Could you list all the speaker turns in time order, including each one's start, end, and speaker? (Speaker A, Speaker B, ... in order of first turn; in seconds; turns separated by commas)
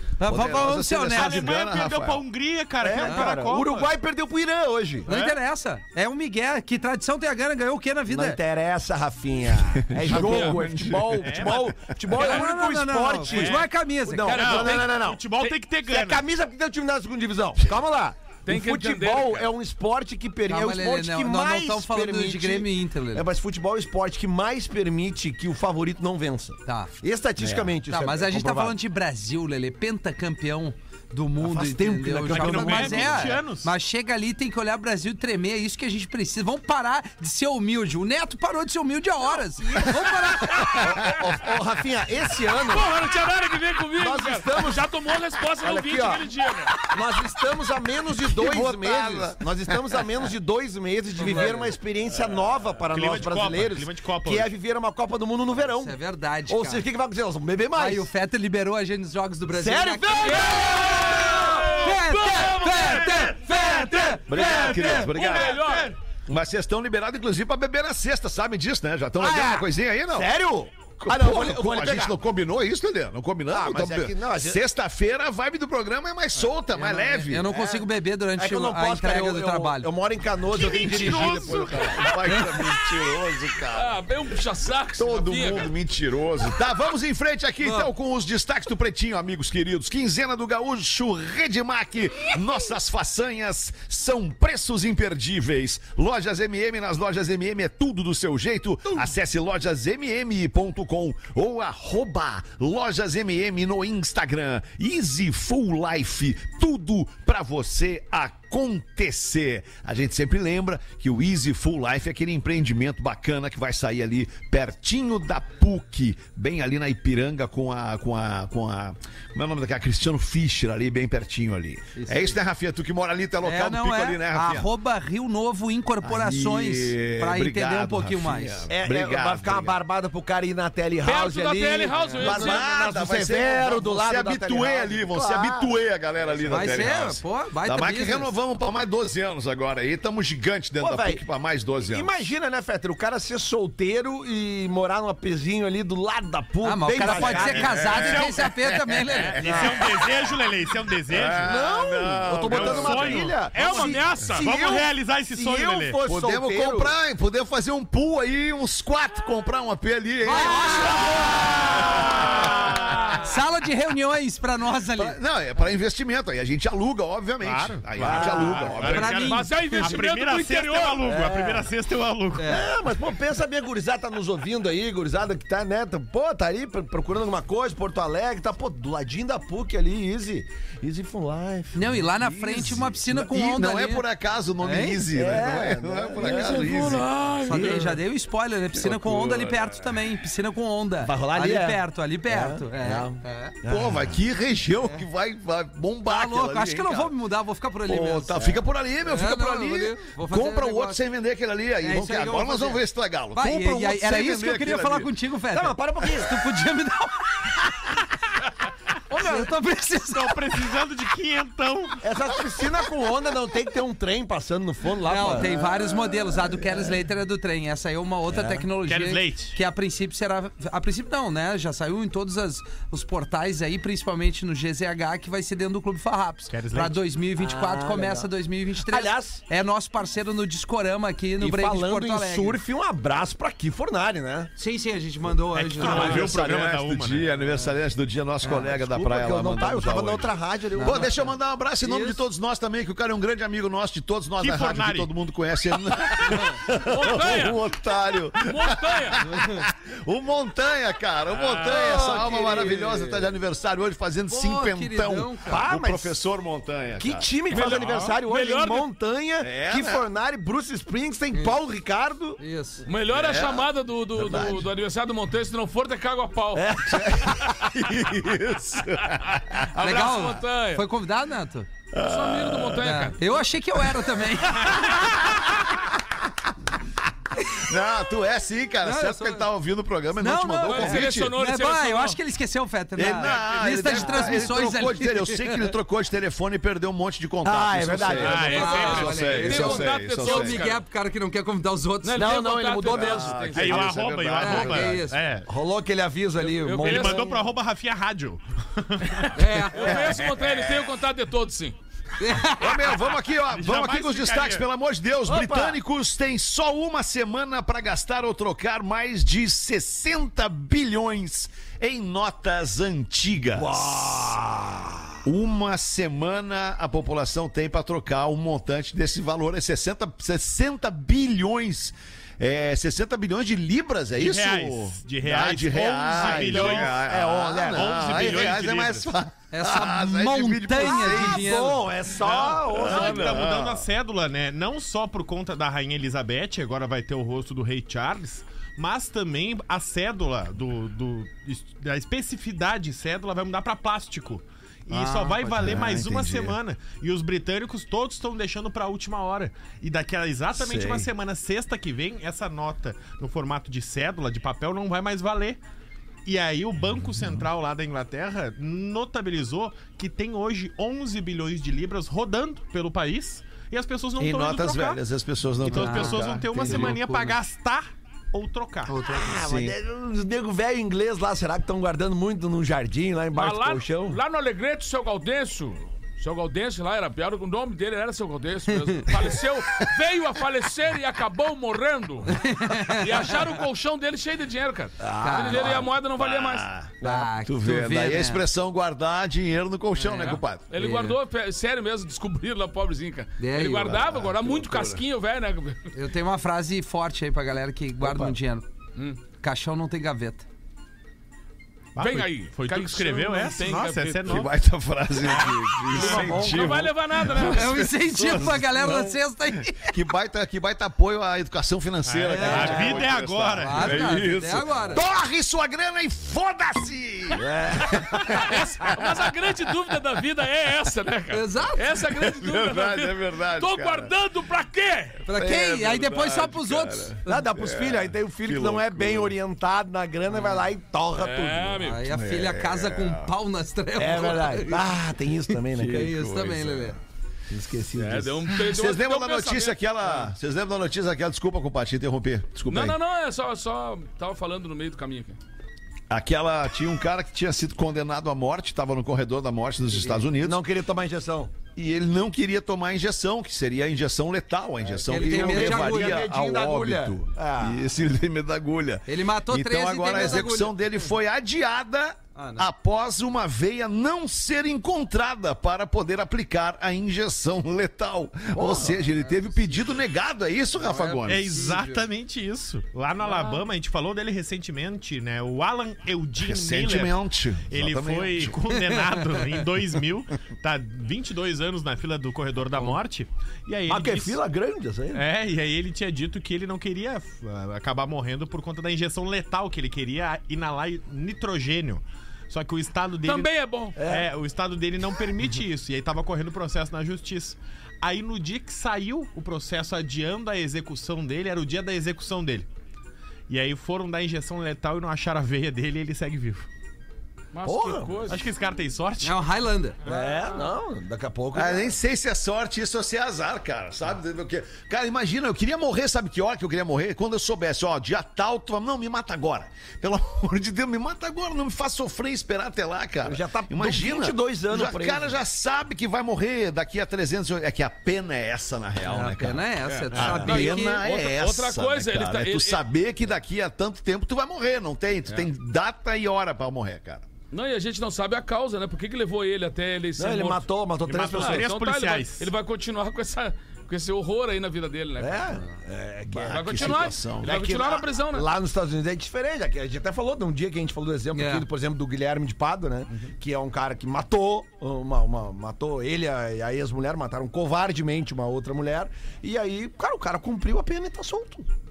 Speaker A: 0.2-1.6, Speaker B: 0.2-2.2, Speaker C: 1.1-3.9, Speaker D: 2.8-5.1, Speaker A: 3.0-3.3, Speaker A: 5.1-8.4, Speaker C: 5.1-5.4, Speaker D: 8.1-15.3, Speaker B: 9.9-11.7, Speaker C: 10.1-10.6, Speaker C: 11.2-11.7, Speaker A: 12.1-14.9, Speaker E: 12.1-12.5, Speaker C: 13.2-13.7, Speaker E: 14.3-14.8, Speaker C: 14.3-16.2, Speaker D: 15.8-28.8, Speaker E: 18.4-19.5, Speaker A: 20.5-23.2, Speaker A: 26.6-26.9, Speaker B: 27.4-27.7, Speaker A: 27.9-41.0, Speaker D: 31.4-33.3, Speaker C: 32.2-33.7, Speaker D: 39.3-42.9, Speaker E: 42.7-46.8, Speaker D: 44.0-44.8, Speaker D: 45.6-46.2, Speaker D: 46.8-56.0, Speaker B: 48.2-50.0, Speaker A: 51.2-51.7, Speaker C: 52.9-54.5, Speaker A: 55.6-56.8, Speaker D: 56.5-58.1, Speaker A: 57.7-60.5, Speaker D: 59.5-61.8, Speaker E: 60.1-63.7, Speaker A: 61.8-65.1, Speaker D: 63.4-64.2, Speaker B: 64.3-65.6, Speaker E: 64.4-65.9, Speaker C: 64.7-66.0, Speaker B: 66.2-70.3, Speaker D: 69.2-72.1, Speaker B: 71.0-77.5, Speaker D: 73.5-74.6, Speaker A: 76.7-79.9, Speaker D: 77.5-82.1, Speaker B: 80.5-84.0, Speaker C: 80.5-82.0, Speaker A: 82.2-82.6, Speaker E: 83.7-85.7, Speaker B: 85.0-124.7, Speaker A: 87.6-87.9, Speaker A: 122.0-122.4, Speaker A: 123.4-128.7, Speaker B: 126.0-129.8, Speaker D: 128.7-136.8, Speaker E: 131.0-132.7, Speaker A: 131.9-132.2, Speaker B: 132.2-142.2, Speaker A: 136.5-138.3, Speaker D: 140.8-141.2, Speaker D: 141.8-148.2, Speaker A: 146.6-149.7, Speaker C: 147.0-148.6, Speaker B: 147.6-150.1, Speaker C: 149.2-151.5, Speaker D: 149.4-149.9, Speaker B: 151.1-153.3, Speaker D: 151.3-156.9, Speaker C: 152.5-156.0, Speaker E: 153.5-154.4, Speaker B: 156.0-163.2, Speaker A: 160.2-161.6, Speaker D: 160.4-162.2, Speaker C: 162.0-163.2, Speaker A: 163.2-165.2, Speaker B: 164.9-169.2, Speaker C: 167.4-172.6, Speaker D: 168.0-169.1, Speaker A: 168.8-170.0, Speaker E: 169.2-171.1, Speaker D: 171.0-171.7, Speaker A: 172.3-172.7, Speaker D: 172.4-181.9, Speaker A: 181.7-184.0, Speaker B: 182.2-187.1, Speaker A: 184.6-185.0, Speaker D: 185.1-186.8, Speaker E: 186.2-187.9, Speaker A: 187.4-193.6, Speaker D: 187.5-188.0, Speaker B: 188.7-190.0, Speaker D: 191.0-194.1, Speaker B: 193.7-197.1, Speaker A: 196.0-198.4, Speaker B: 197.8-205.1, Speaker A: 199.1-201.0, Speaker A: 201.8-202.8, Speaker A: 203.3-208.0, Speaker D: 205.5-206.5, Speaker A: 209.1-210.6, Speaker C: 210.1-212.0, Speaker D: 212.0-215.6, Speaker A: 215.1-232.6, Speaker B: 215.6-216.4, Speaker D: 218.3-218.7, Speaker C: 218.8-219.6, Speaker C: 226.5-227.0, Speaker D: 227.3-229.4, Speaker D: 231.4-234.5, Speaker A: 234.6-236.4, Speaker C: 235.5-237.3, Speaker B: 235.8-240.3, Speaker D: 235.9-236.2, Speaker D: 238.4-241.3, Speaker A: 240.7-241.3, Speaker B: 240.8-257.3, Speaker A: 241.8-242.2, Speaker C: 244.4-245.1, Speaker E: 246.7-247.7, Speaker E: 248.3-249.2, Speaker A: 249.2-249.6, Speaker D: 251.5-253.3, Speaker A: 254.3-255.6, Speaker D: 255.4-256.1, Speaker D: 257.0-262.4, Speaker E: 257.5-258.9, Speaker C: 257.6-258.0, Speaker B: 259.4-260.1, Speaker A: 262.4-262.9, Speaker E: 262.9-266.8, Speaker B: 263.1-264.7, Speaker D: 266.5-267.7, Speaker B: 266.9-269.6, Speaker E: 269.7-270.9, Speaker A: 269.8-271.7, Speaker B: 271.9-272.9, Speaker E: 272.0-273.4, Speaker A: 272.8-275.2, Speaker B: 274.9-275.7, Speaker B: 277.5-281.3, Speaker A: 278.8-279.5, Speaker A: 280.2-285.7, Speaker E: 280.6-282.2, Speaker B: 282.9-290.7, Speaker E: 283.1-284.0, Speaker D: 287.4-289.1, Speaker C: 288.1-289.6, Speaker A: 288.3-292.4, Speaker E: 288.7-290.8, Speaker E: 292.0-293.9, Speaker D: 292.1-293.8, Speaker B: 292.9-295.0, Speaker C: 293.5-295.5, Speaker A: 294.4-295.2, Speaker D: 295.5-297.5, Speaker E: 296.4-297.3, Speaker C: 296.8-299.6, Speaker A: 299.3-300.1, Speaker E: 299.7-301.8, Speaker B: 299.8-300.9, Speaker A: 302.2-303.0, Speaker B: 302.6-314.3, Speaker C: 303.5-304.6, Speaker D: 305.2-305.8, Speaker D: 313.5-315.1, Speaker B: 315.2-331.5, Speaker C: 324.1-327.0, Speaker D: 326.1-328.1, Speaker C: 327.7-329.1, Speaker A: 329.5-331.8, Speaker D: 330.8-333.5, Speaker C: 332.2-355.6, Speaker B: 332.7-333.9, Speaker A: 344.9-345.7, Speaker B: 345.5-346.6, Speaker B: 350.6-351.1, Speaker C: 356.2-365.0, Speaker B: 364.2-366.9, Speaker C: 365.6-368.9, Speaker A: 365.7-367.4, Speaker A: 368.9-369.4, Speaker D: 369.0-374.2, Speaker B: 369.3-369.8, Speaker E: 373.3-386.7, Speaker A: 378.7-379.1, Speaker A: 382.3-383.4, Speaker D: 385.0-385.9, Speaker A: 385.2-385.8, Speaker B: 385.8-390.7, Speaker D: 387.0-387.3, Speaker A: 387.0-388.4, Speaker A: 390.0-391.2, Speaker E: 390.2-395.9, Speaker A: 393.4-394.0, Speaker B: 393.8-395.0, Speaker A: 395.9-398.6, Speaker A: 399.4-400.4, Speaker C: 401.9-404.5, Speaker E: 402.0-404.5, Speaker B: 404.2-419.7, Speaker E: 405.9-407.8, Speaker D: 405.9-406.8, Speaker A: 407.4-409.9, Speaker C: 412.1-414.2, Speaker A: 412.3-413.0, Speaker D: 412.4-413.0, Speaker A: 413.6-415.0, Speaker D: 417.3-418.4, Speaker E: 418.3-425.2, Speaker A: 421.3-421.9, Speaker B: 422.0-424.1, Speaker A: 425.3-427.2, Speaker B: 425.3-429.3, Speaker D: 427.2-431.8, Speaker A: 430.3-430.6, Speaker E: 431.1-432.0, Speaker A: 431.8-434.9, Speaker B: 432.1-433.3, Speaker D: 434.0-436.1, Speaker A: 435.6-437.0, Speaker B: 435.7-436.9, Speaker D: 437.5-438.4, Speaker E: 437.9-439.8, Speaker B: 438.5-442.9, Speaker E: 442.7-445.4, Speaker B: 446.1-450.6, Speaker D: 450.4-451.5, Speaker B: 451.7-471.7, Speaker D: 454.9-457.8, Speaker A: 455.1-456.3, Speaker A: 459.1-460.8, Speaker A: 462.3-462.7, Speaker A: 468.6-469.4, Speaker A: 470.8-472.1, Speaker C: 471.2-477.1, Speaker A: 473.2-473.6, Speaker B: 476.4-478.6, Speaker C: 477.7-484.4, Speaker A: 478.8-479.6, Speaker D: 483.9-485.2, Speaker C: 485.1-502.7, Speaker E: 493.2-494.0, Speaker D: 494.0-494.3, Speaker C: 503.5-506.7, Speaker E: 507.5-508.4, Speaker D: 507.6-508.2, Speaker C: 508.3-509.3, Speaker A: 509.2-510.0, Speaker D: 510.0-511.9, Speaker B: 511.5-537.2, Speaker D: 523.2-525.4, Speaker A: 529.0-531.0, Speaker E: 529.9-532.8, Speaker D: 530.1-530.5, Speaker E: 537.5-540.7, Speaker D: 540.2-541.7, Speaker C: 541.0-542.5, Speaker E: 541.2-545.6, Speaker D: 545.2-561.7, Speaker B: 546.3-547.6, Speaker E: 546.4-548.5, Speaker A: 551.3-551.6